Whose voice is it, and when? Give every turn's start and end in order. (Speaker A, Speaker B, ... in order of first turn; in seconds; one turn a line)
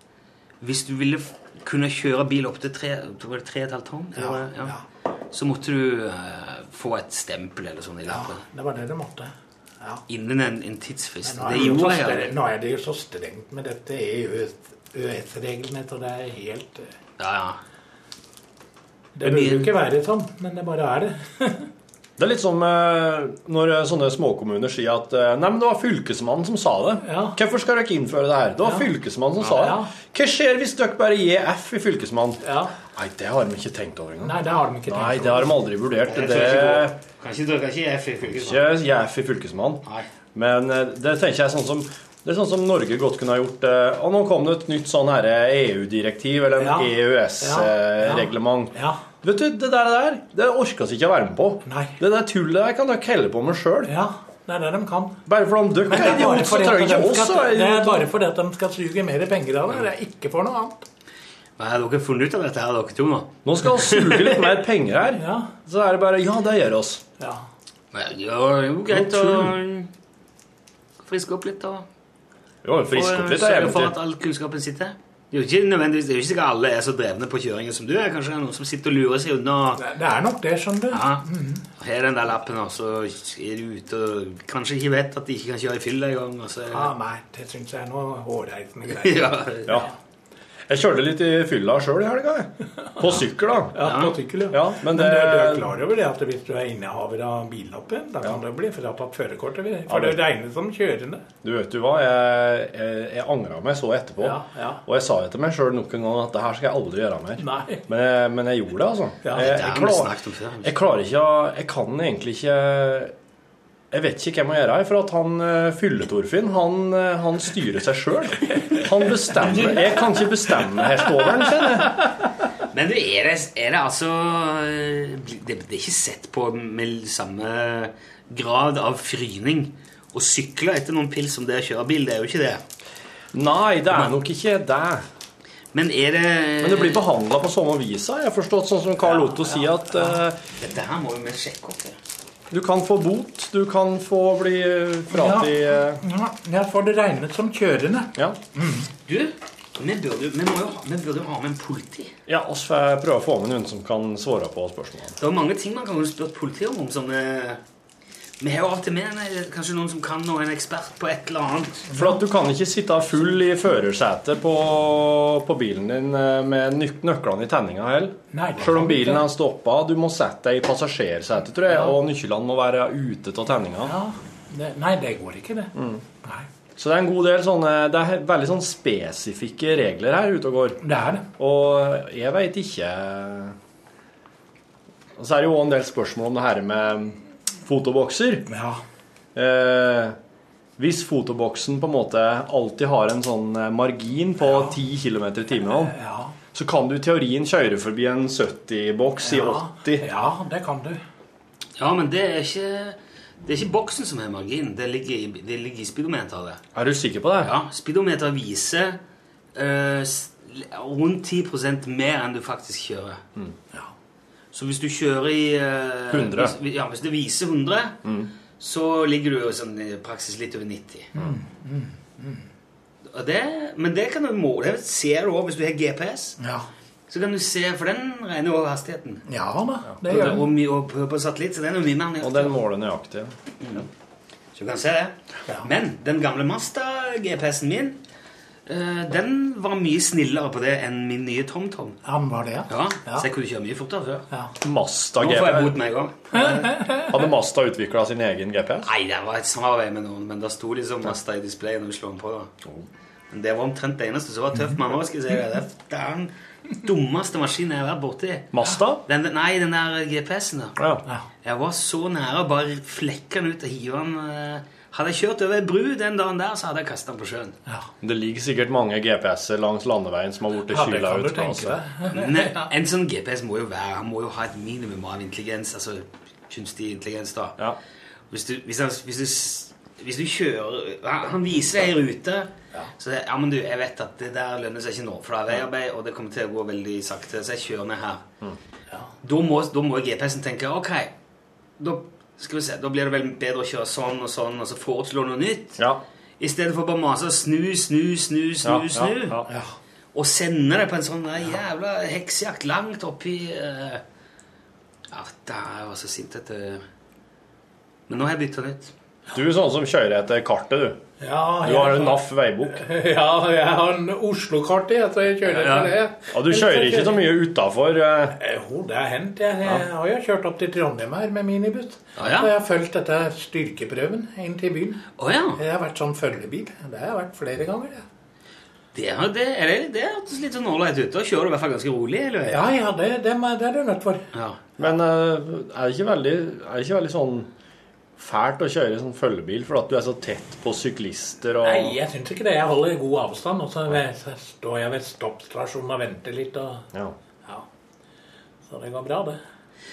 Speaker A: 0.6-4.8
Speaker B: 4.2-4.8
Speaker A: 5.3-8.4
Speaker B: 8.1-10.0
Speaker A: 10.1-12.3
Speaker B: 11.2-16.9
Speaker A: 17.2-17.6
Speaker B: 19.2-21.7
Speaker A: 19.2-19.7
Speaker C: 22.2-34.4
Speaker B: 27.0-27.4
Speaker B: 29.5-29.9
Speaker B: 32.4-32.7
Speaker B: 34.2-35.6
Speaker C: 34.9-37.0
Speaker A: 36.1-38.6
Speaker C: 38.3-39.8
Speaker C: 40.4-53.9
Speaker B: 46.6-49.0
Speaker B: 51.6-52.0
Speaker B: 53.9-55.2
Speaker C: 55.3-58.1
Speaker B: 55.9-60.9
Speaker A: 61.6-64.4
Speaker C: 63.5-67.0
Speaker B: 65.2-65.5
Speaker B: 67.2-67.5
Speaker A: 67.9-69.9
Speaker C: 68.9-69.6
Speaker A: 71.0-71.9
Speaker C: 72.6-74.0
Speaker A: 72.9-79.8
Speaker B: 79.8-81.6
Speaker A: 80.9-86.9
Speaker B: 86.7-89.9
Speaker A: 88.9-89.8
Speaker C: 90.7-93.8
Speaker B: 93.8-101.2
Speaker A: 93.8-94.2
Speaker C: 94.5-95.7
Speaker C: 99.9-100.2
Speaker C: 101.4-113.1
Speaker B: 104.2-104.8
Speaker B: 107.4-107.8
Speaker B: 109.2-109.5
Speaker A: 109.3-110.8
Speaker C: 113.9-122.0
Speaker A: 122.7-132.6
Speaker C: 133.3-135.1
Speaker A: 135.7-137.0
Speaker C: 136.6-140.4
Speaker B: 139.1-140.2
Speaker A: 140.6-142.0
Speaker C: 142.5-146.0
Speaker B: 145.1-148.9
Speaker A: 149.1-152.1
Speaker C: 152.3-155.2
Speaker A: 155.2-157.6
Speaker A: 158.4-161.9
Speaker B: 161.9-162.2
Speaker C: 161.9-173.9
Speaker B: 168.3-169.3
Speaker B: 173.8-176.5
Speaker C: 175.8-176.0
Speaker C: 176.8-180.8
Speaker B: 180.8-181.3
Speaker C: 181.4-183.6
Speaker C: 185.2-188.5
Speaker B: 188.5-188.8
Speaker C: 189.3-190.2
Speaker C: 190.8-196.0
Speaker B: 194.4-194.8
Speaker B: 195.7-196.4
Speaker C: 196.5-200.1
Speaker B: 199.2-201.0
Speaker A: 201.8-206.6
Speaker C: 206.7-207.5
Speaker A: 207.4-209.0
Speaker A: 209.6-213.2
Speaker A: 214.5-218.0
Speaker C: 216.1-216.6
Speaker C: 218.0-218.3
Speaker A: 218.6-221.1
Speaker B: 221.2-222.5
Speaker A: 223.1-226.4
Speaker B: 226.4-226.7
Speaker A: 227.1-229.2
Speaker B: 229.3-230.5
Speaker C: 230.1-230.3
Speaker A: 230.1-232.6
Speaker C: 232.2-233.3
Speaker A: 233.6-233.9
Speaker A: 234.6-238.0
Speaker A: 238.7-242.0
Speaker B: 242.1-243.3
Speaker A: 242.7-244.3
Speaker C: 244.6-245.8
Speaker A: 245.2-246.8
Speaker B: 246.3-247.1
Speaker C: 246.9-248.9
Speaker A: 248.8-252.5
Speaker A: 253.3-258.5
Speaker C: 258.5-259.0
Speaker A: 259.1-260.8
Speaker C: 260.8-261.0
Speaker A: 261.4-267.6
Speaker C: 268.0-271.8
Speaker B: 270.7-272.7
Speaker A: 272.1-277.6
Speaker A: 278.3-288.2
Speaker A: 289.2-291.1
Speaker A: 291.8-295.8
Speaker A: 296.4-299.4
Speaker C: 298.6-299.5
Speaker B: 299.5-299.7
Speaker A: 300.1-304.0
Speaker A: 305.1-306.8
Speaker A: 308.1-308.9
Speaker C: 309.3-311.0
Speaker B: 311.2-317.3
Speaker C: 311.6-312.8
Speaker A: 315.4-315.9
Speaker C: 316.3-318.4
Speaker B: 318.4-325.0
Speaker A: 322.2-322.5
Speaker A: 325.2-325.6
Speaker B: 325.6-328.0
Speaker A: 328.9-332.6
Speaker B: 332.5-334.3
Speaker A: 334.3-334.6
Speaker C: 334.8-337.5
Speaker C: 338.2-342.0
Speaker B: 341.6-346.9
Speaker B: 348.6-349.4